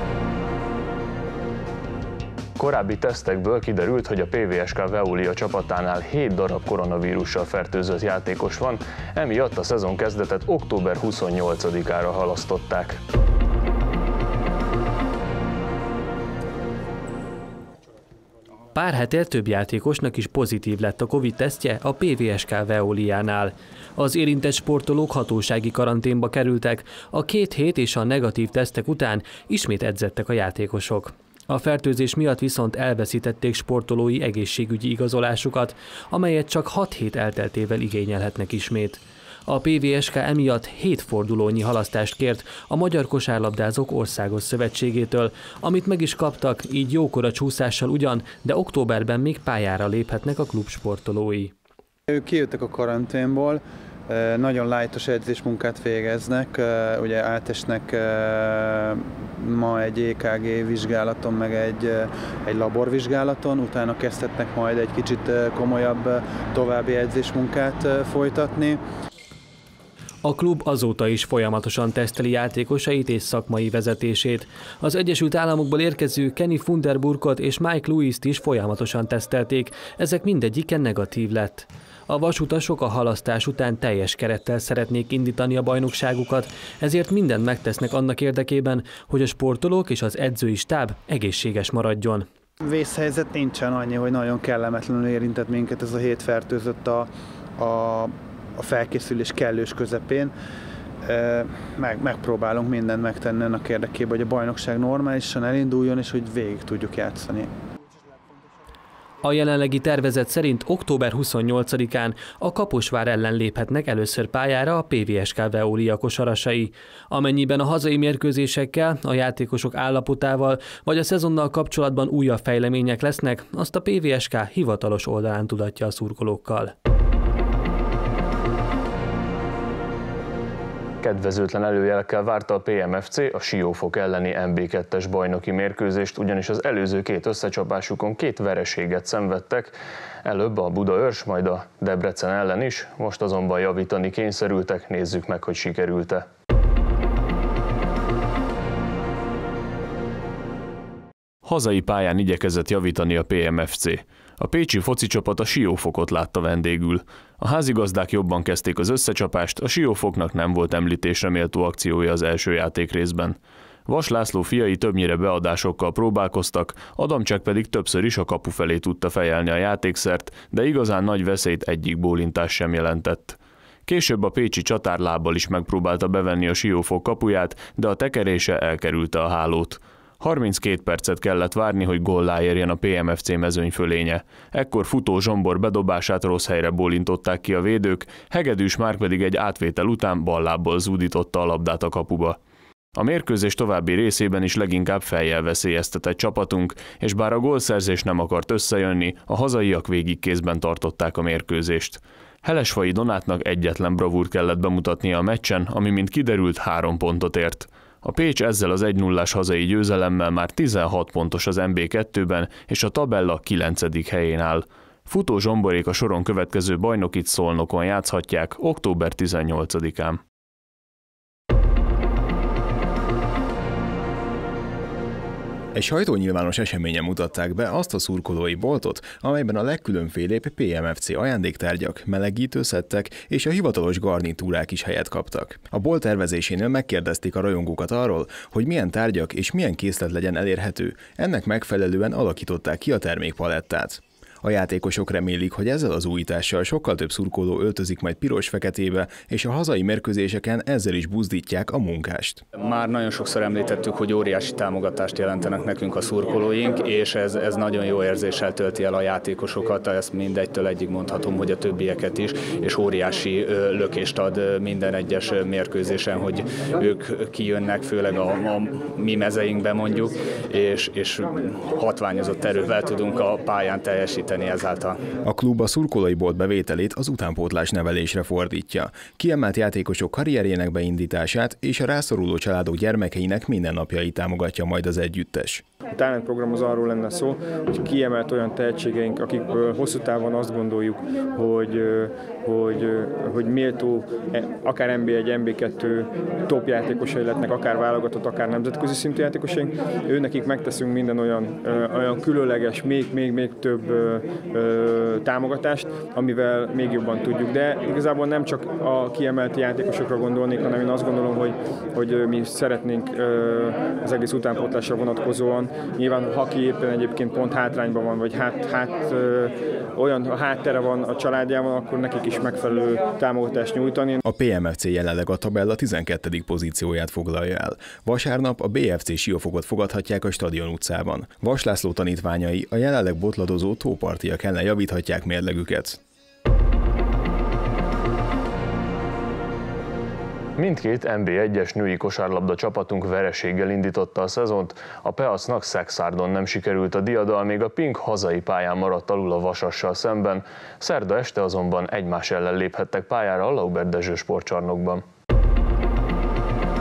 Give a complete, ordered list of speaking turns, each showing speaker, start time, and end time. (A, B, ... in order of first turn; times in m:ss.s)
0:02.6-0:13.0 A
0:18.7-0:51.5 B
0:52.1-1:08.8 C
1:10.2-1:32.3 B
1:32.6-1:40.3 C
1:41.0-1:47.5 C
1:49.2-2:06.7 B
2:11.0-2:26.3 A
2:31.4-3:12.4 A
3:13.0-3:40.2 A
3:45.7-4:12.4 D
4:12.6-4:35.0 E
4:35.2-4:45.6 D
4:45.9-5:24.2 F
5:24.2-5:36.0 D
5:40.6-5:55.0 A